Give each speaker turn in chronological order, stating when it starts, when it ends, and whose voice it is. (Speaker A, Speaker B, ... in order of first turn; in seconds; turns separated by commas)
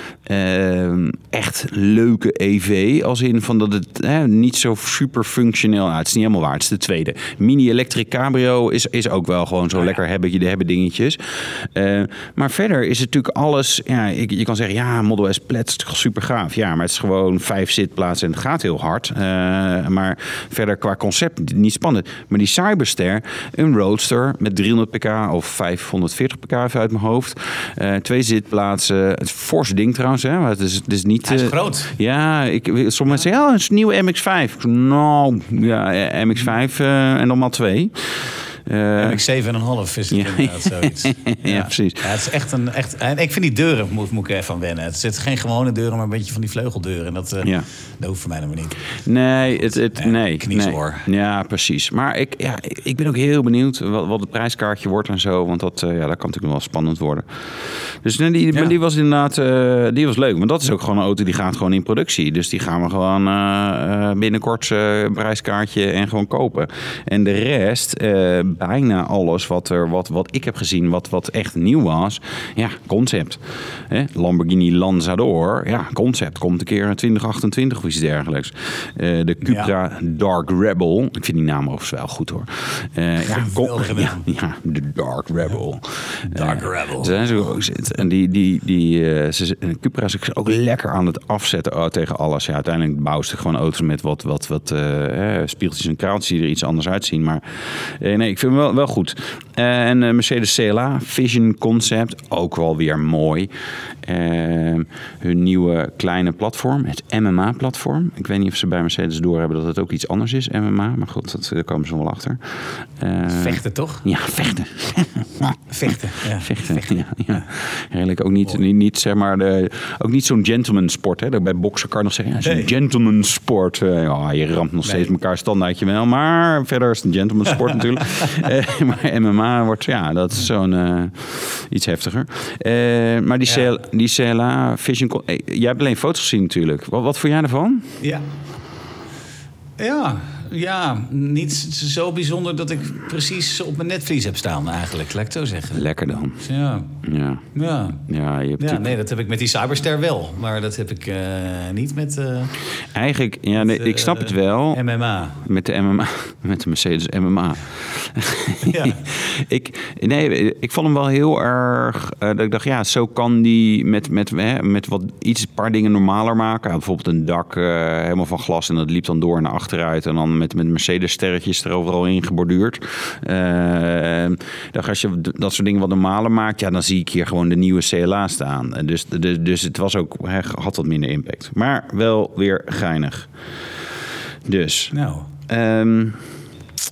Speaker A: 0.2-39.2, Speaker B: 31.2-31.9, Speaker B: 39.0-48.8, Speaker A: 40.1-42.1, Speaker A: 47.4-47.7, Speaker A: 49.0-103.5, Speaker B: 49.6-51.0, Speaker B: 79.4-79.7, Speaker B: 83.2-84.2, Speaker B: 86.3-87.5, Speaker A: 104.0-138.0, Speaker B: 113.3-114.0, Speaker B: 115.7-117.4, Speaker B: 122.4-122.7, Speaker B: 124.8-125.1, Speaker B: 128.2-128.5, Speaker B: 138.0-138.2, Speaker B: 139.8-145.8, Speaker A: 145.7-146.4, Speaker B: 146.4-146.9, Speaker A: 147.0-147.5, Speaker B: 147.5-148.0, Speaker A: 148.1-148.9, Speaker B: 148.6-152.5, Speaker A: 152.9-154.8, Speaker B: 153.6-155.4, Speaker A: 155.4-183.3, Speaker B: 158.6-159.0, Speaker A: 184.4-184.9, Speaker B: 184.9-185.3, Speaker A: 185.5-186.2